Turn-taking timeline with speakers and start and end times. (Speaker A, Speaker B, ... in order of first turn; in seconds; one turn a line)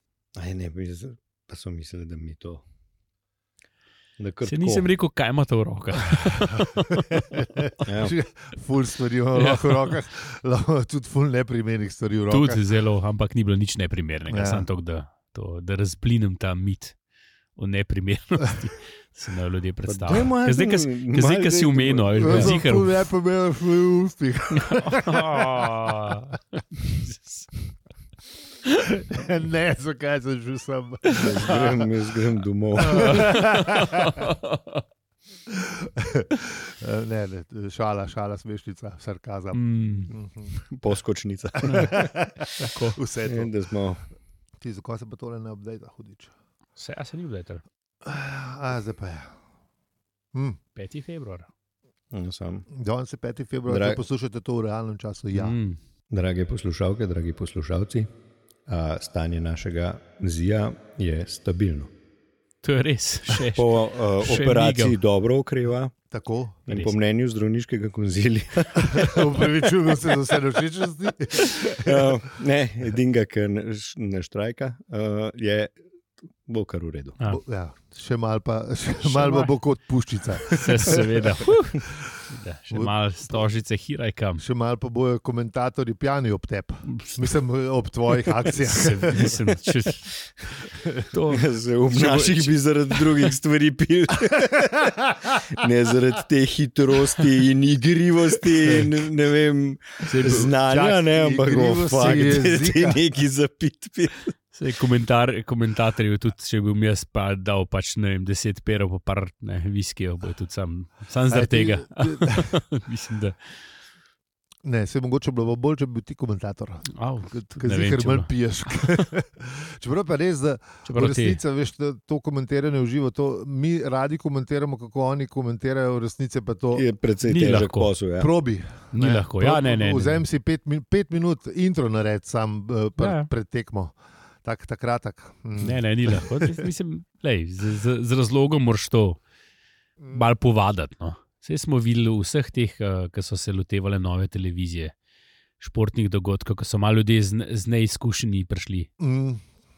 Speaker A: 0.3-2.6
Speaker A: 4.2-4.8
Speaker B: 4.4-7.2
Speaker C: 6.5-12.6
Speaker A: 7.8-8.1
Speaker B: 9.3-9.9
Speaker B: 12.3-16.9
Speaker C: 14.3-14.6
Speaker B: 17.6-22.9
Speaker A: 19.9-22.6
Speaker C: 22.2-26.2
Speaker B: 24.6-27.5
Speaker C: 28.6-31.9
Speaker A: 31.2-33.4
Speaker C: 32.8-34.3
Speaker B: 32.8-34.8
Speaker C: 35.5-40.5
Speaker B: 39.5-40.1
Speaker A: 40.7-42.1
Speaker C: 41.6-43.5
Speaker B: 41.6-41.9
Speaker B: 42.6-43.0
Speaker A: 43.2-44.0
Speaker C: 44.6-46.3
Speaker B: 46.8-47.6
Speaker C: 48.0-49.3
Speaker B: 50.8-51.5
Speaker A: 52.1-52.6
Speaker C: 52.7-55.5
Speaker A: 53.7-54.0
Speaker B: 55.3-55.8
Speaker A: 56.1-58.1
Speaker A: 58.7-61.9
Speaker B: 62.6-65.0
Speaker A: 63.3-65.9
Speaker C: 66.1-66.6
Speaker A: 66.7-69.5
Speaker C: 68.9-72.2
Speaker A: 71.4-75.8
Speaker A: 76.4-77.2
Speaker C: 77.3-81.1
Speaker B: 79.0-79.5
Speaker B: 80.5-84.4
Speaker C: 82.7-83.5
Speaker C: 84.4-89.4
Speaker B: 86.9-87.2
Speaker B: 88.4-90.2
Speaker B: 91.1-93.3
Speaker A: 91.3-104.3
Speaker C: 94.7-95.3
Speaker B: 100.0-100.5
Speaker C: 100.7-103.0
Speaker B: 104.5-113.4
Speaker C: 111.3-112.5
Speaker C: 114.6-126.9
Speaker B: 116.9-118.3
Speaker B: 120.9-121.4
Speaker A: 126.7-128.3
Speaker B: 127.3-127.9
Speaker C: 128.2-136.6
Speaker B: 128.9-130.2
Speaker B: 133.0-133.3
Speaker B: 135.6-139.2
Speaker C: 140.0-140.3
Speaker B: 140.1-144.9
Speaker B: 145.6-148.9
Speaker C: 149.0-149.4